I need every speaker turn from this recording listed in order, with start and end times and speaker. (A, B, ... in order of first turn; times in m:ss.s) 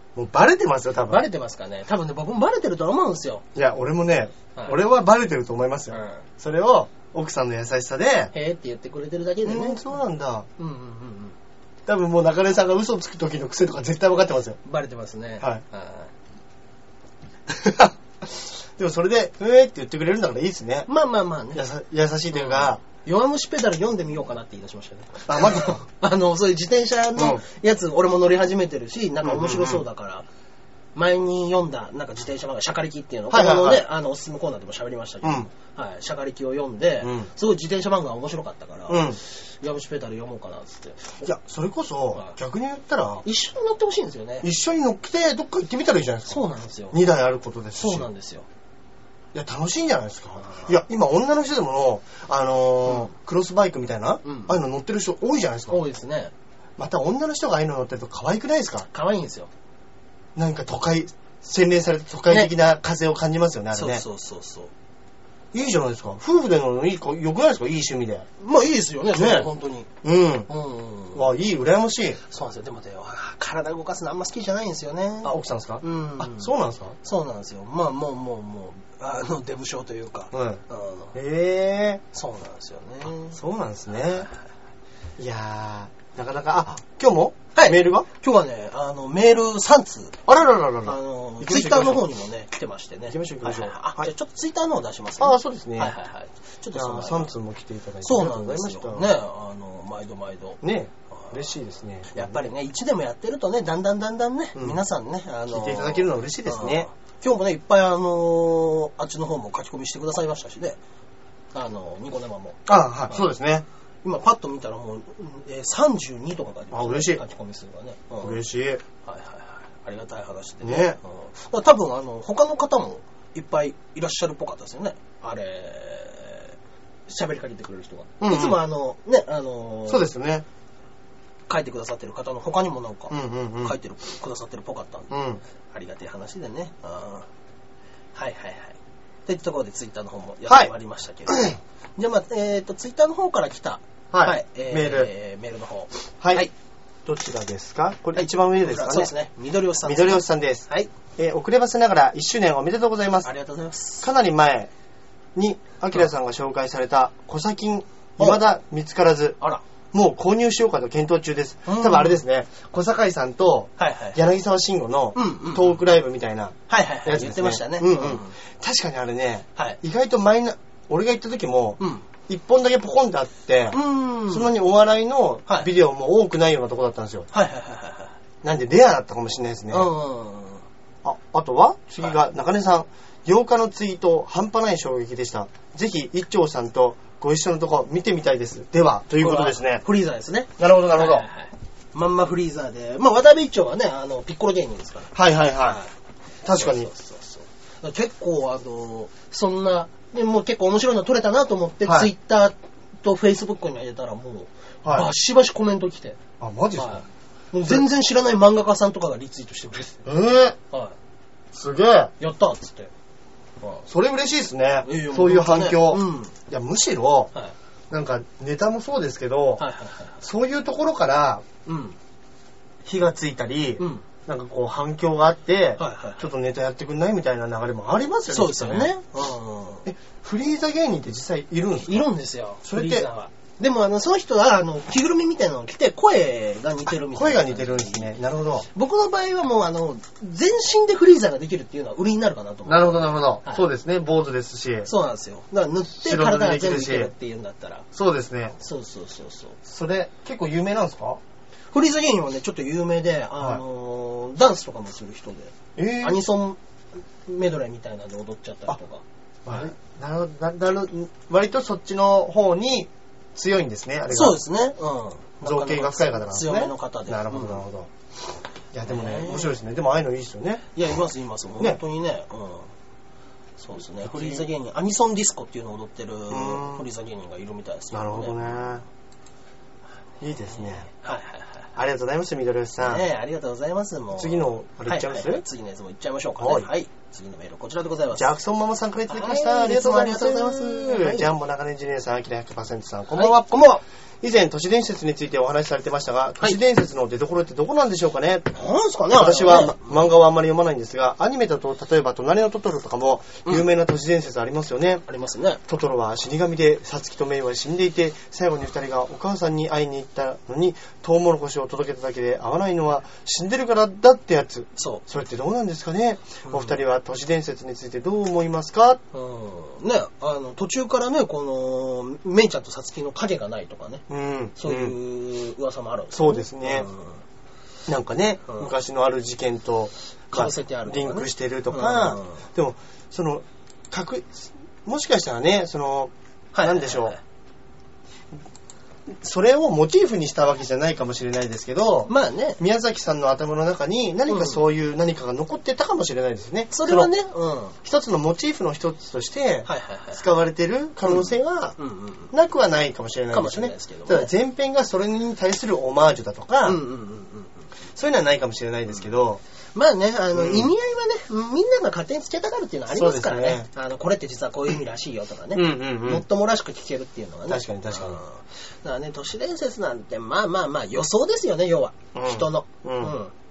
0:00.2-0:01.2 A
0:01.1-0:03.4 B
0:03.6-0:08.3 A
0:05.9-0:06.2 B
0:08.3-0:10.0 B
0:09.4-0:10.5 A
0:10.6-0:11.4 B
0:11.9-0:14.6 A
0:14.6-0:16.1 B
0:17.5-0:20.9 A
0:20.9-0:21.6 B
0:21.5-0:22.8 A
0:22.3-0:30.3 B
0:25.3-0:25.8 A
0:27.2-0:27.4 A
0:29.2-0:29.8 A
0:31.0-0:41.3 B
0:33.3-0:33.8 A
0:35.2-0:35.5 A
0:37.0-0:37.3 A
0:38.9-0:39.2 A
0:41.2-0:43.2 A
0:43.2-0:44.5 B
0:44.4-0:46.4 A
0:46.3-0:47.0 B
0:46.9-0:48.1 A
0:47.8-0:48.5 B
0:49.3-0:55.8 A
0:54.2-0:54.6 B
0:55.7-0:56.3 B
0:56.8-0:58.9 A
0:58.9-0:59.5 B
1:00.4-1:04.0 A
1:03.7-1:04.7 B
1:05.5-1:08.3 A
1:08.4-1:09.9 B
1:09.1-1:09.5 A
1:10.0-1:10.5 A
1:10.5-1:11.3 B
1:11.1-1:12.2 A
1:12.3-1:16.5 B
1:15.2-1:17.0 A
1:17.0-1:21.2 B
1:20.3-1:20.6 A
1:21.1-1:22.0 A
1:22.1-1:23.4 B
1:23.3-1:24.3 A
1:25.2-1:28.1 A
1:27.6-1:30.2 B
1:30.3-1:32.0 A
1:30.8-1:37.3 B
1:33.1-1:34.1 A
1:35.2-1:36.0 A
1:36.7-1:39.1 A
1:38.0-1:40.6 B
1:40.6-1:42.4 A
1:41.1-1:41.4 B
1:42.2-1:50.8 B
1:45.5-1:46.9 A
1:51.5-1:53.2 B
1:52.7-1:53.6 A
1:54.0-1:58.4 B
1:56.7-1:57.2 A
1:58.2-1:58.8 A
1:59.0-2:06.5 B
2:00.6-2:01.0 A
2:07.1-2:10.1 B
2:08.2-2:08.6 A
2:09.9-2:10.4 A
2:11.5-2:15.1 B
2:13.1-2:13.8 A
2:15.1-2:15.4 A
2:15.7-2:17.3 B
2:18.2-2:26.5 B
2:21.3-2:21.6 A
2:24.1-2:25.1 A
2:26.2-2:26.5 A
2:27.0-2:29.1 A
2:28.2-2:30.9 B
2:29.8-2:30.6 A
2:31.2-2:33.3 A
2:33.2-2:34.1 B
2:34.0-2:34.7 A
2:35.4-2:39.4 A
2:39.9-2:57.3 A
2:41.7-2:42.2 B
2:43.8-2:44.2 B
2:45.2-2:45.8 B
2:46.7-2:48.4 B
2:51.8-2:52.1 B
2:53.7-2:54.5 B
2:57.3-2:58.2 B
2:58.4-2:59.9 A
2:59.7-3:00.6 B
3:01.0-3:09.8 A
3:09.2-3:15.9 B
3:10.6-3:11.3 A
3:15.1-3:15.8 A
3:16.4-3:16.9 A
3:16.5-3:26.2 B
3:21.8-3:22.1 A
3:24.8-3:25.1 A
3:26.4-3:27.0 A
3:26.8-3:30.1 B
3:30.0-3:30.6 A
3:31.5-3:32.1 A
3:32.2-3:32.9 B
3:33.9-3:37.3 A
3:34.8-3:36.3 B
3:37.9-3:39.6 A
3:39.6-3:40.2 B
3:40.2-3:41.4 A
3:41.7-3:42.0 B
3:42.8-3:48.9 A
3:43.8-3:44.0 B
3:45.8-3:46.3 B
3:48.3-3:49.8 B
3:49.9-3:52.1 A
3:51.8-3:58.1 B
3:52.6-3:53.1 A
3:57.1-3:58.7 A
3:58.7-4:03.7 B
4:02.7-4:04.9 A
4:04.8-4:07.9 B
4:06.0-4:07.1 A
4:07.9-4:08.6 A
4:08.6-4:09.6 B
4:09.7-4:11.2 A
4:11.7-4:16.6 B
4:15.8-4:16.2 A
4:17.2-4:19.7 B
4:19.5-4:24.4 A
4:24.1-4:27.6 B
4:25.4-4:27.9 A
4:28.7-4:30.7 A
4:28.8-4:29.6 B
4:30.8-4:32.7 B
4:33.6-4:38.6 B
4:34.0-4:34.5 A
4:36.3-4:36.9 A
4:37.9-4:38.8 A
4:40.2-4:40.9 A
4:40.5-4:41.7 B
4:41.8-4:43.1 A
4:42.8-4:48.3 B
4:44.1-4:45.4 A
4:46.4-4:46.7 A
4:48.1-4:58.5 A
4:49.1-4:51.3 B
4:53.1-4:53.8 B
4:58.5-5:00.1 B
4:59.1-5:05.0 A
5:05.1-5:05.6 B
5:05.7-5:19.0 A
5:14.8-5:15.0 B
5:16.5-5:16.8 B
5:19.1-5:24.0 B
5:24.1-5:25.0 A
5:24.6-5:27.2 B
5:26.1-5:26.9 A
5:27.9-5:37.2 A
5:30.3-5:32.4 B
5:36.5-5:37.2 B
5:39.1-5:47.1 A
5:42.1-5:42.6 B
5:44.3-5:44.6 B
5:46.7-5:47.8 B
5:47.8-5:51.8 A
5:49.7-5:50.2 B
5:51.0-5:52.3 B
5:52.3-5:56.8 A
5:53.3-5:54.3 B
5:56.6-5:57.6 B
5:58.0-5:59.4 A
5:59.8-6:13.3 B
6:00.3-6:00.7 A
6:02.9-6:03.7 A
6:05.5-6:06.2 A
6:07.5-6:08.2 A
6:12.2-6:13.2 A